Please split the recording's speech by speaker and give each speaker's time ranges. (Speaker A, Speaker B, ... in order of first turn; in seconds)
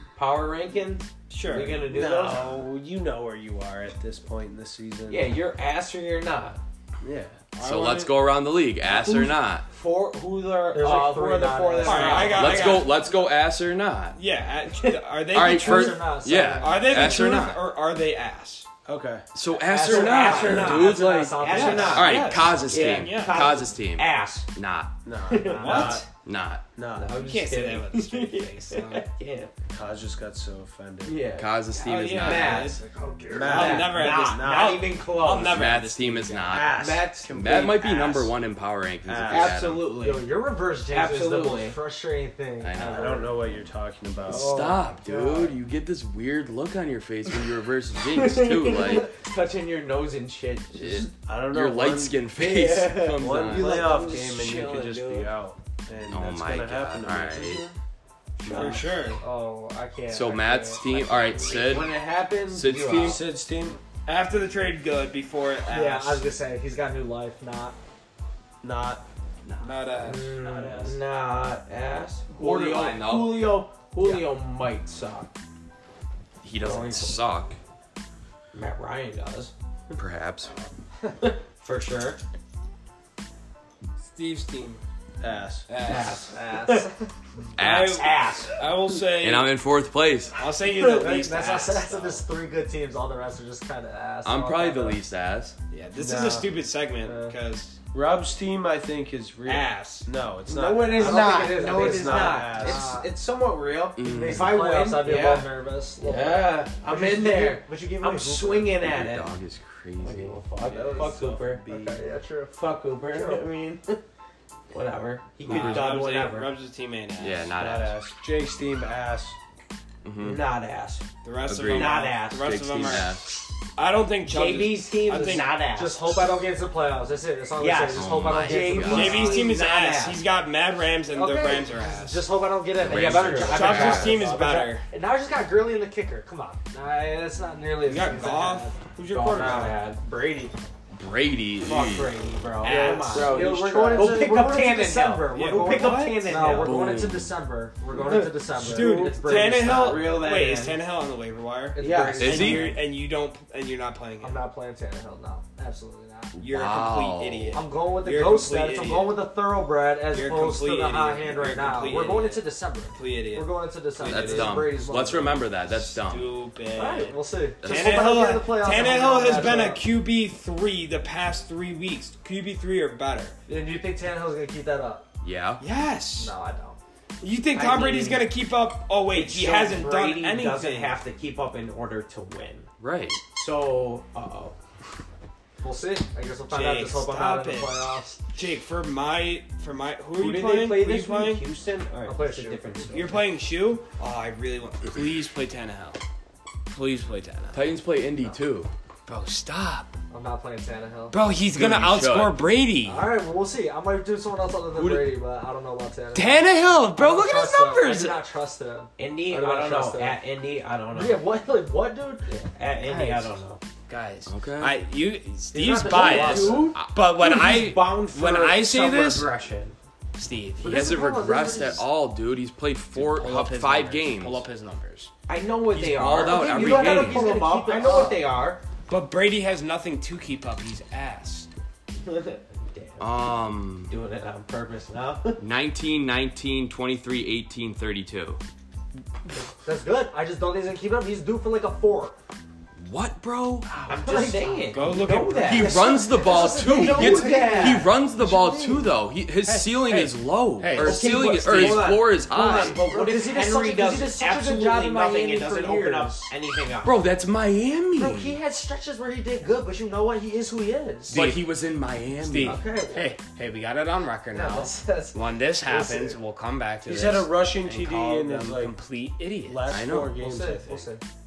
Speaker A: 0.1-2.5, 5.1-6.6, 8.9-12.9, 19.5-24.5, 25.2-26.1, 26.9-29.5, 31.0-31.6, 32.1-32.8, 33.4-35.8, 36.6-38.2, 39.3-40.3, 40.9-41.8, 45.0-45.5, 48.1-51.1, 52.4-55.3, 61.4-63.3, 70.0-75.3, 76.6-77.2, 78.5-79.5, 81.2-82.2, 85.8-86.9, 87.6-88.6, 100.5-109.3, 110.0-111.6, 112.5-114.0, 114.7-116.5, 120.2-121.0, 121.7-123.0, 124.3-126.0, 127.6-130.2, 132.9-134.3, 139.1-140.0, 141.6-147.0, 148.0-150.8, 151.8-152.7, 177.5-178.3, 179.1-182.7, 183.3-184.5, 190.2-193.2, 209.0-211.2, 212.3-213.6, 215.8-219.8, 225.3-228.6, 232.0-235.4, 243.7-245.9, 246.4-247.9, 250.7-257.1
Speaker B: 1.3-1.8, 7.6-8.1, 11.8-13.0, 14.1-18.7, 21.5-23.6, 25.6-26.0, 27.1-29.1, 31.7-36.7, 58.5-59.2, 64.0-66.3, 69.6-70.8, 84.0-84.8, 85.7-86.2, 87.6-89.5, 90.4-92.3, 95.7-97.8, 99.4-100.1, 115.5-117.5, 121.2-125.6, 128.8-132.3, 133.1-134.9, 137.8-139.8, 142.6-144.0, 145.3-146.3, 148.1-154.4, 156.4-159.3, 160.1-164.7, 165.7-173.3, 175.6-176.3, 177.2-181.0, 186.5-187.8, 188.3-191.4, 192.9-196.0, 196.7-197.6, 199.1-199.9, 201.1-203.1, 206.1-208.2, 213.9-219.3, 220.1-220.8, 222.9-225.1, 228.9-231.5, 244.7-245.8, 249.5-252.0, 261.1-261.5, 262.1-269.7
Speaker C: 1.8-5.4, 7.0-7.5, 18.9-19.3, 20.2-20.9, 25.0-26.0, 26.8-27.2, 29.7-31.2, 33.3-35.0, 36.5-38.3, 39.0-39.6, 42.8-44.6, 51.1-57.7, 58.4-58.9, 62.8-63.8, 68.6-69.0, 70.4-71.0, 85.2-85.7, 96.0-96.5, 97.9-102.9, 111.3-112.0, 117.6-119.3, 266.8-268.8, 269.4-270.9
Speaker D: 7.6-9.6, 12.2-14.2, 15.3-17.6, 19.3-24.9, 26.1-26.6, 31.3-32.7, 35.3-39.9, 42.6-43.2, 44.3-49.1, 50.7-54.1, 56.1-57.6, 58.5-58.9, 60.1-63.3, 69.4-69.9, 72.3-73.7, 76.4-77.5, 79.9-80.5, 87.5-88.2, 89.2-90.4, 94.2-95.5, 104.0-104.8, 108.8-110.5, 115.5-116.0, 117.2-118.0, 120.0-120.4, 121.4-123.3, 127.9-129.4, 132.8-134.3, 140.9-142.2, 146.5-147.4, 152.2-152.8, 156.3-157.6, 164.0-166.4, 167.6-168.4, 175.2-175.6, 182.8-183.2, 197.5-198.7, 201.5-202.5, 204.8-205.1, 214.3-214.8, 220.6-224.4, 225.7-227.3, 233.0-233.9, 235.4-238.4, 242.8-243.7, 245.4-252.9, 256.8-258.4, 261.1-262.6, 269.7-270.2
Speaker E: 10.7-12.8, 15.4-17.3, 19.8-22.2, 25.4-26.0, 32.4-33.8, 39.9-43.5, 44.3-45.0, 59.2-61.5, 65.7-67.8, 86.3-87.1, 90.7-95.0, 97.0-97.3, 100.9-103.1, 104.0-108.7, 110.5-112.5, 113.1-113.4, 125.3-129.5, 131.1-138.8, 139.3-140.5, 142.6-150.2, 151.8-152.8, 154.2-156.3, 157.5-165.6, 166.8-169.8, 173.5-175.1, 176.2-176.8, 185.6-188.2, 192.1-192.6, 200.1-201.2, 202.8-210.2, 210.9-212.3, 212.8-213.3, 215.5-216.8, 220.6-221.9, 226.2-228.2, 239.6-242.2, 243.9-244.8, 245.5-248.9, 252.6-256.3, 257.9-261.2, 262.4-263.1, 264.3-266.2, 270.1-271.0